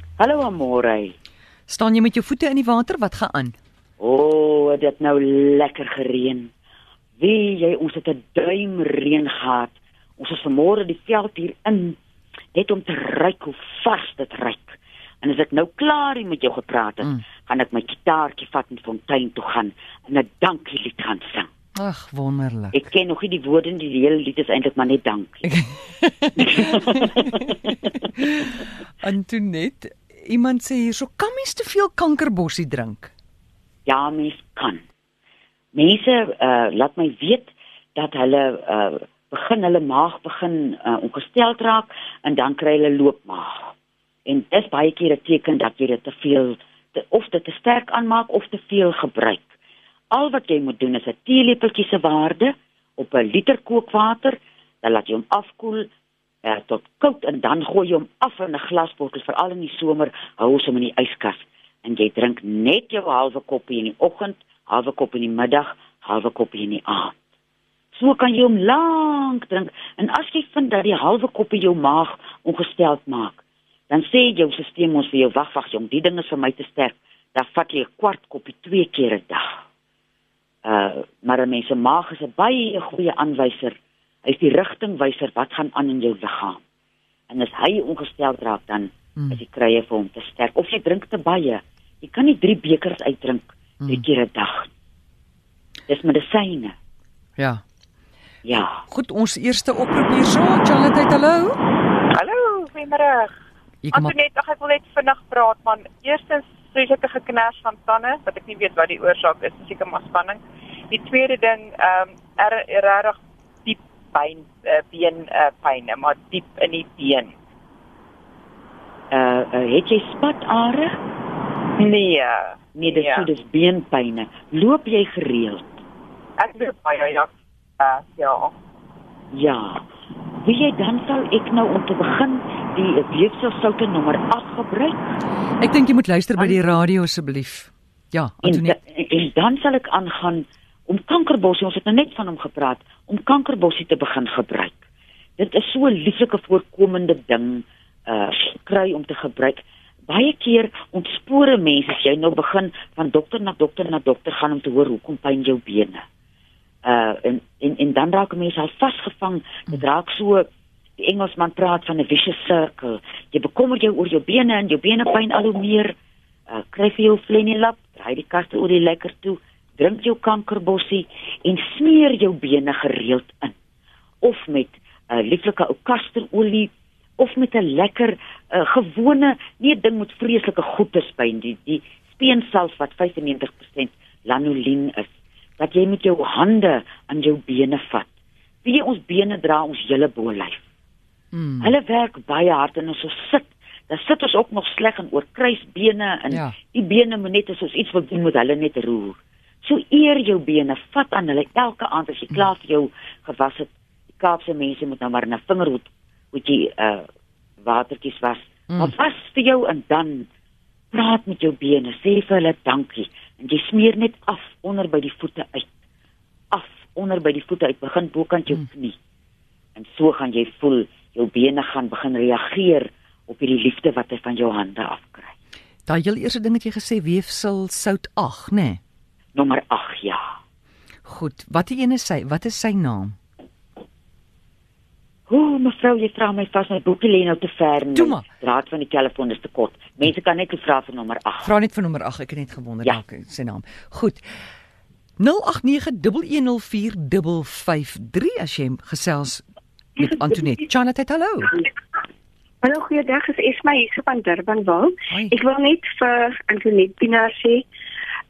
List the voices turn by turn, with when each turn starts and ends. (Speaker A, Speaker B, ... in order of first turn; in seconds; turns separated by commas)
Speaker A: 0.2-1.1, Speaker B: 1.7-3.5, Speaker A: 4.0-6.5, Speaker A: 7.2-12.0, Speaker A: 12.5-21.5, Speaker B: 21.8-22.8, Speaker A: 22.7-25.5, Speaker B: 25.5-33.1, Speaker A: 26.4-27.3, Speaker A: 33.9-34.8, Speaker A: 35.7-43.7, Speaker A: 44.2-49.4, Speaker A: 50.1-55.9, Speaker A: 56.4-67.2, Speaker A: 67.9-79.6, Speaker A: 80.6-86.6, Speaker A: 87.3-94.7, Speaker A: 95.9-96.7, Speaker B: 97.4-97.6, Speaker A: 98.4-98.8, Speaker B: 98.9-101.6, Speaker C: 102.0-103.3, Speaker B: 103.8-104.1, Speaker C: 103.9-117.3, Speaker A: 119.1-120.9, Speaker C: 121.8-123.2, Speaker A: 122.7-125.8, Speaker C: 126.4-128.5, Speaker A: 129.3-129.8, Speaker A: 130.4-135.0, Speaker B: 135.6-138.7, Speaker A: 138.4-144.8, Speaker A: 145.4-156.0, Speaker A: 156.8-160.5, Speaker A: 161.0-165.9, Speaker A: 166.5-173.5, Speaker A: 174.2-185.1, Speaker A: 185.6-188.1, Speaker A: 188.6-190.6, Speaker B: 191.3-191.7, Speaker A: 191.6-207.1, Speaker B: 196.3-196.6, Speaker A: 207.6-210.3, Speaker A: 210.9-215.7, Speaker A: 216.5-218.9, Speaker A: 219.7-225.3, Speaker B: 225.8-228.8, Speaker A: 229.3-230.3, Speaker B: 231.0-233.2, Speaker A: 235.3-241.5, Speaker B: 237.9-238.2, Speaker B: 241.4-244.2, Speaker B: 245.2-249.4, Speaker B: 250.0-251.6, Speaker D: 252.6-257.6, Speaker B: 255.1-255.4